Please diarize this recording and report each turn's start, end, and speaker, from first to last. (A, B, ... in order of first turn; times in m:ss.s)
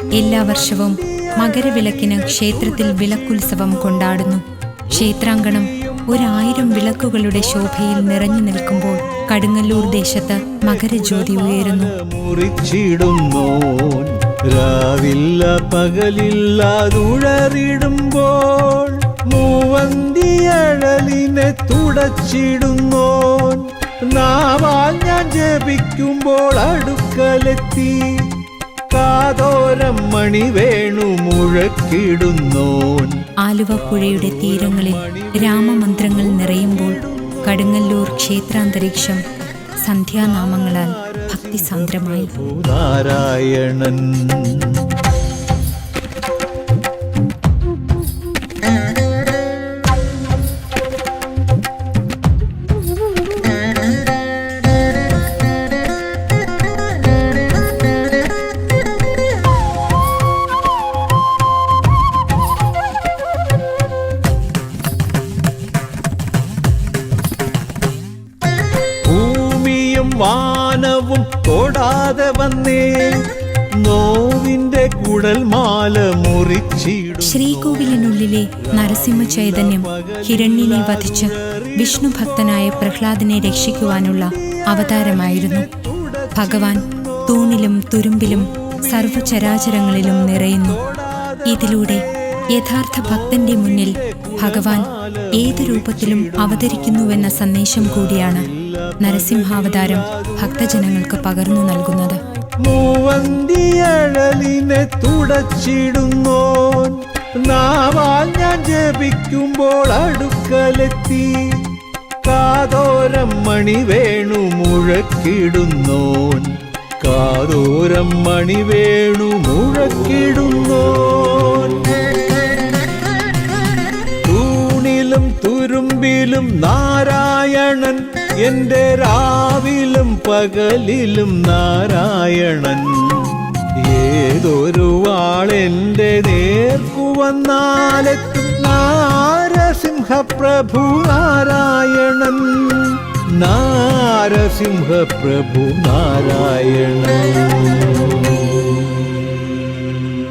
0:00.1-0:11.9 A
0:00.4-0:00.6 B
0:01.2-0:04.1 B
0:04.9-0:28.3 B
0:28.9-0:33.2 B
0:33.4-0:39.2 A
0:33.7-0:38.3 B
0:39.8-0:42.4 A
0:40.2-0:44.8 B
1:09.0-1:13.2 B
1:13.8-1:18.2 B
1:17.2-1:25.6 A
1:18.7-1:22.9 B
1:23.9-1:27.7 B
1:26.3-1:30.8 A
1:28.2-1:32.0 B
1:31.5-1:32.0 A
1:32.5-1:38.5 A
1:32.9-1:41.2 B
1:39.0-1:42.2 A
1:42.6-1:51.6 B
1:52.2-2:01.8 B
2:04.2-2:29.0 B